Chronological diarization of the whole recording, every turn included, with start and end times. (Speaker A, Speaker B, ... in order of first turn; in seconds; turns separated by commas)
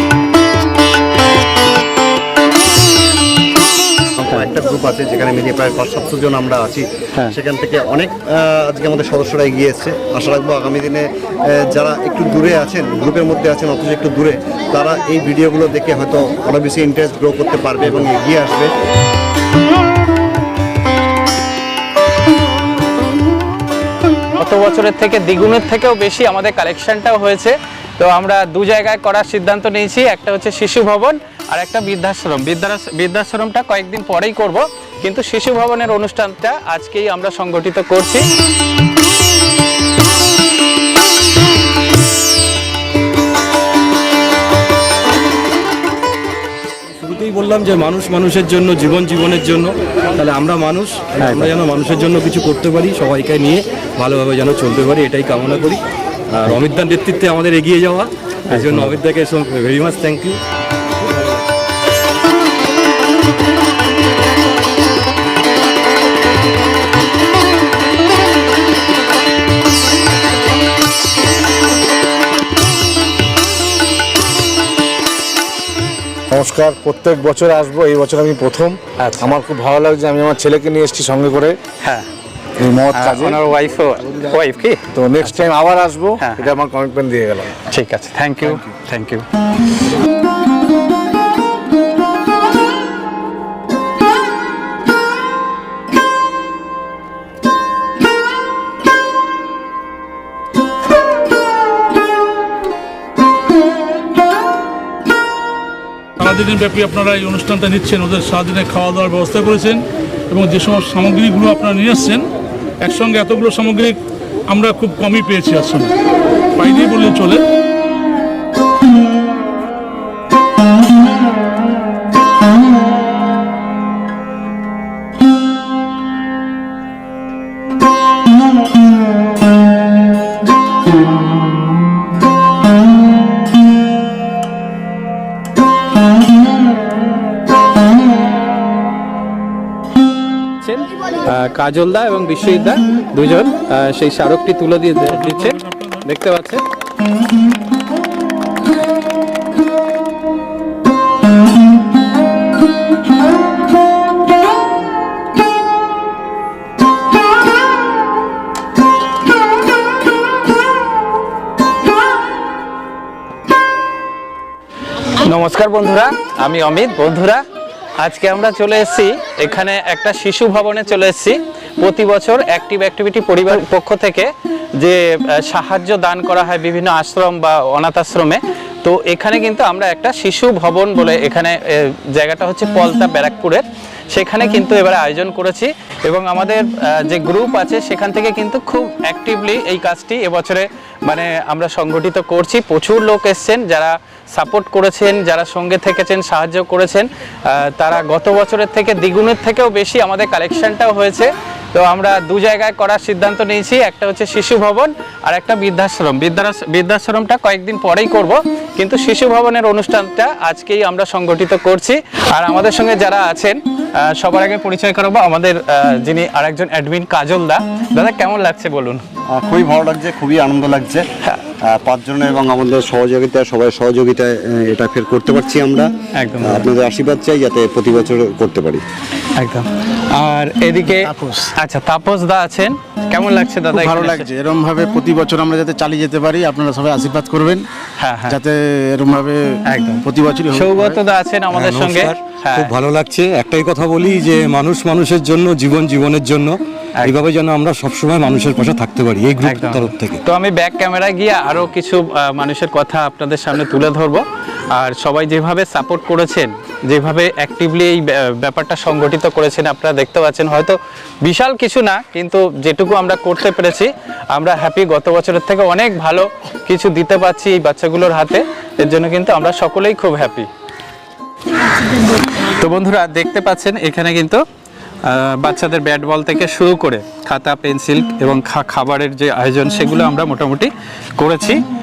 Speaker A: 4.3-18.7, Speaker B: 24.4-38.3, Speaker C: 46.9-60.4, Speaker B: 51.2-51.5, Speaker B: 58.5-59.0, Speaker D: 76.3-81.6, Speaker B: 79.0-79.3, Speaker D: 82.6-83.4, Speaker B: 82.9-85.4, Speaker D: 84.9-87.6, Speaker B: 86.2-86.5, Speaker B: 87.7-89.2, Speaker E: 106.2-112.3, Speaker E: 112.8-114.0, Speaker E: 114.5-115.9, Speaker E: 116.6-117.4, Speaker B: 140.6-146.6, Speaker E: 145.1-146.1, Speaker B: 165.2-167.4, Speaker B: 168.0-219.0, Speaker A: 219.3-221.1, Speaker A: 221.6-228.8, Speaker B: 226.2-226.7, Speaker B: 229.4-234.3, Speaker F: 231.1-231.5, Speaker F: 233.7-237.7, Speaker B: 238.0-238.4, Speaker F: 238.3-241.0, Speaker B: 239.7-242.7, Speaker C: 241.5-250.2, Speaker B: 249.4-270.5, Speaker B: 272.2-274.4, Speaker B: 275.1-281.6